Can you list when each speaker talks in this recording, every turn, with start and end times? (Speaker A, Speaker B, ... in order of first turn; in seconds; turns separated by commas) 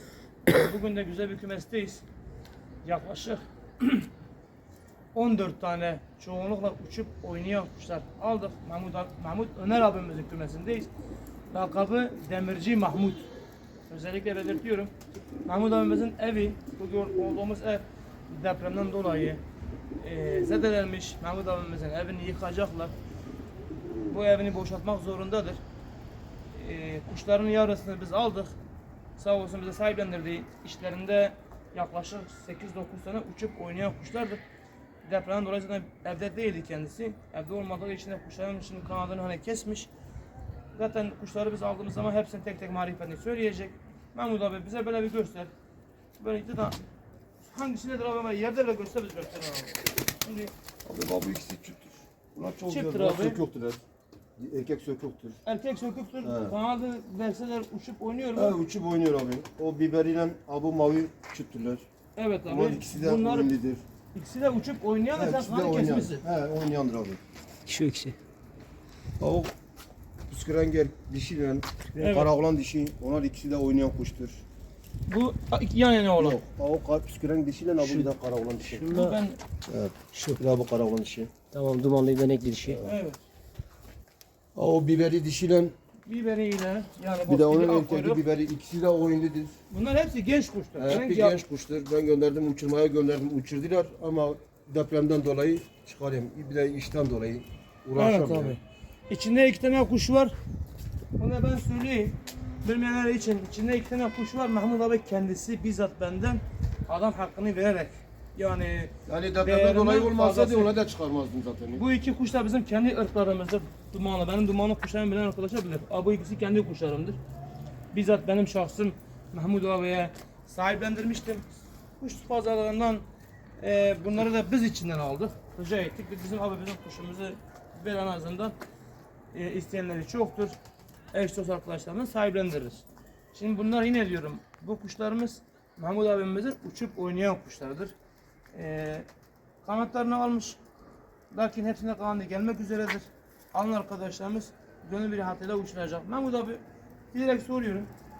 Speaker A: 0.5-2.0, Speaker A: 2.8-4.1, Speaker A: 5.1-10.9, Speaker A: 11.5-13.3, Speaker A: 13.9-14.9, Speaker A: 15.4-19.4, Speaker A: 20.0-22.9, Speaker A: 24.1-25.6, Speaker A: 26.5-28.5, Speaker A: 29.2-34.4, Speaker A: 35.0-39.9, Speaker A: 40.7-45.5, Speaker A: 46.2-46.8, Speaker A: 47.4-50.5, Speaker B: 50.8-53.8, Speaker A: 52.7-53.4, Speaker B: 54.4-55.4, Speaker A: 55.4-58.5, Speaker B: 56.2-56.5, Speaker B: 58.3-61.8, Speaker A: 62.1-63.5, Speaker B: 62.5-63.8, Speaker A: 64.1-66.2, Speaker B: 65.2-67.2, Speaker C: 67.7-68.2, Speaker B: 69.2-69.5, Speaker B: 70.3-74.4, Speaker A: 72.0-72.3, Speaker A: 75.0-76.4, Speaker B: 76.2-78.9, Speaker C: 78.7-79.2, Speaker A: 78.9-79.4, Speaker B: 79.7-81.3, Speaker C: 80.1-80.4, Speaker C: 81.5-82.8, Speaker B: 82.7-82.9, Speaker A: 82.8-83.2, Speaker B: 84.5-85.7, Speaker A: 86.0-88.2, Speaker B: 87.3-89.5, Speaker A: 89.7-91.4, Speaker B: 90.8-98.6, Speaker A: 98.0-100.3, Speaker A: 101.2-110.7, Speaker B: 109.0-111.8, Speaker A: 111.7-117.2, Speaker A: 117.9-121.4, Speaker A: 122.0-123.0, Speaker A: 123.6-128.5, Speaker A: 129.3-130.6, Speaker A: 131.1-137.9, Speaker A: 138.5-139.1, Speaker A: 139.6-140.6, Speaker A: 141.3-146.6, Speaker A: 147.1-147.9